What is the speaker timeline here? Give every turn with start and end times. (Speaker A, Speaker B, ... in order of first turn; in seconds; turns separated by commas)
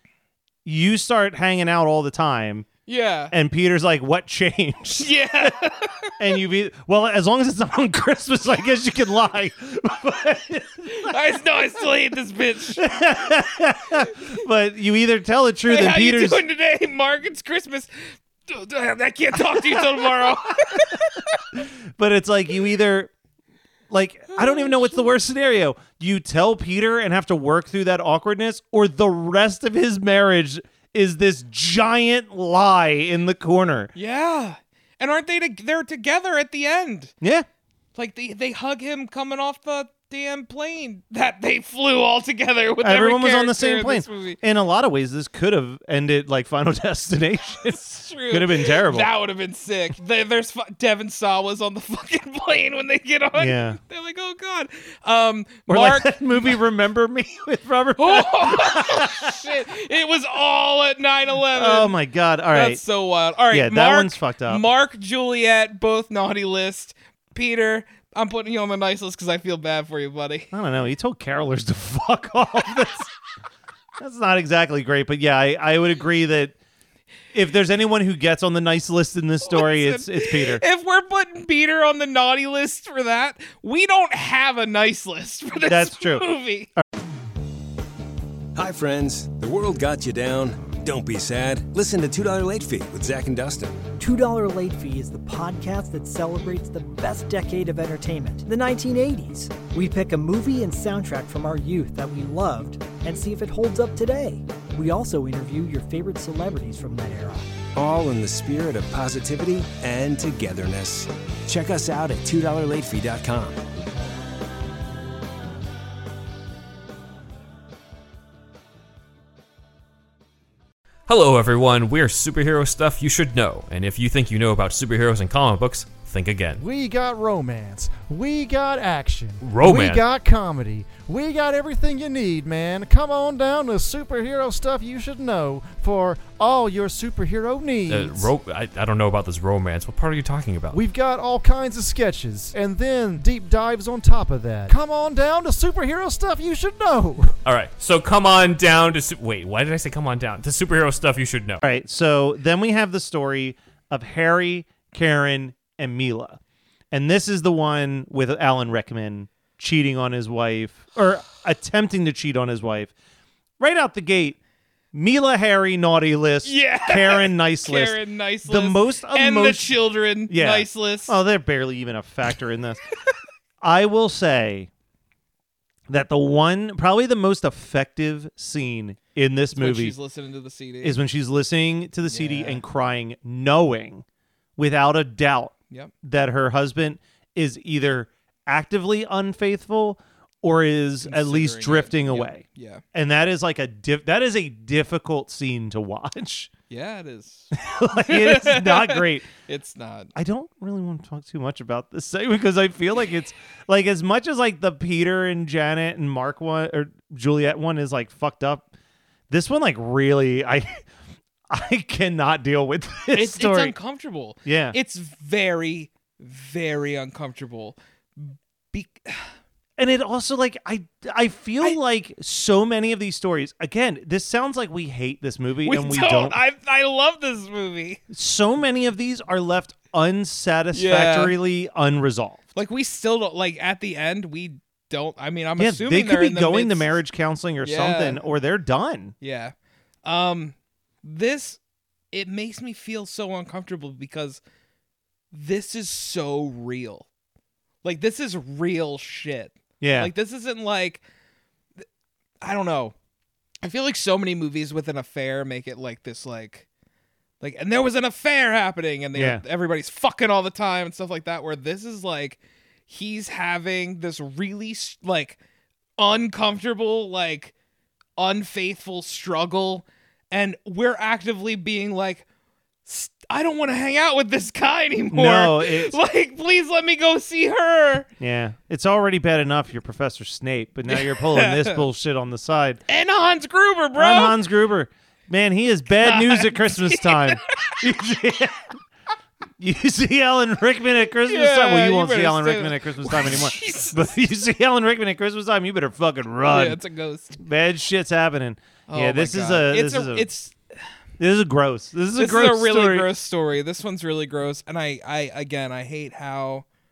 Speaker A: 0.6-2.7, Speaker B: 2.9-3.3, Speaker A: 3.3-5.5, Speaker B: 5.0-6.1, Speaker A: 6.2-11.2, Speaker B: 10.9-12.9, Speaker A: 12.8-16.4, Speaker B: 15.7-21.4, Speaker A: 19.4-20.8, Speaker A: 21.5-23.1, Speaker A: 23.9-33.9, Speaker B: 24.3-25.0, Speaker B: 33.9-37.1, Speaker A: 37.2-37.5, Speaker B: 38.0-44.4, Speaker A: 42.8-49.1, Speaker B: 47.7-56.1, Speaker A: 53.4-53.8, Speaker A: 55.7-59.5, Speaker B: 58.0-61.9, Speaker A: 61.5-62.8, Speaker B: 62.5-70.5, Speaker A: 63.5-64.6, Speaker A: 70.5-73.1, Speaker A: 74.0-76.5, Speaker A: 77.3-80.6, Speaker B: 79.4-86.7, Speaker A: 85.6-86.2, Speaker C: 88.5-93.8, Speaker D: 94.0-107.5, Speaker C: 107.8-113.6, Speaker E: 121.1-126.6, Speaker F: 126.6-138.3, Speaker E: 129.4-130.0, Speaker E: 137.9-140.8, Speaker F: 140.7-147.3, Speaker E: 147.4-151.6, Speaker A: 151.6-156.4, Speaker A: 156.9-162.9, Speaker A: 163.6-164.4, Speaker A: 164.9-172.8, Speaker B: 166.4-171.2, Speaker A: 173.6-174.7, Speaker A: 175.9-179.9, Speaker B: 179.5-181.0, Speaker A: 180.8-184.0, Speaker B: 182.1-182.6, Speaker A: 184.6-196.5, Speaker B: 191.0-192.8, Speaker B: 196.7-200.1, Speaker A: 197.5-199.3, Speaker A: 200.1-208.7, Speaker A: 209.3-210.8, Speaker A: 211.5-213.8, Speaker B: 213.1-219.3, Speaker A: 214.4-214.8, Speaker A: 219.8-226.4, Speaker B: 225.6-228.0, Speaker A: 228.1-232.5, Speaker B: 230.7-231.3, Speaker B: 232.5-236.9, Speaker A: 235.6-239.1, Speaker B: 237.6-238.2, Speaker B: 239.2-239.5, Speaker B: 240.0-241.6, Speaker B: 242.1-244.4, Speaker B: 245.3-247.1, Speaker B: 247.8-251.0, Speaker A: 249.8-250.1, Speaker B: 252.4-252.9, Speaker B: 253.6-256.6, Speaker B: 257.4-265.4, Speaker A: 259.1-259.4, Speaker B: 266.0-267.5, Speaker B: 268.2-272.2, Speaker B: 272.9-278.1, Speaker A: 275.1-275.9, Speaker A: 278.2-282.8, Speaker B: 280.9-281.8, Speaker B: 282.9-284.4, Speaker A: 283.9-288.8, Speaker B: 286.0-287.8, Speaker A: 289.6-296.8, Speaker B: 291.2-294.1, Speaker B: 296.5-297.4, Speaker A: 297.4-300.3, Speaker B: 298.9-300.6, Speaker A: 301.2-303.1, Speaker B: 302.1-306.6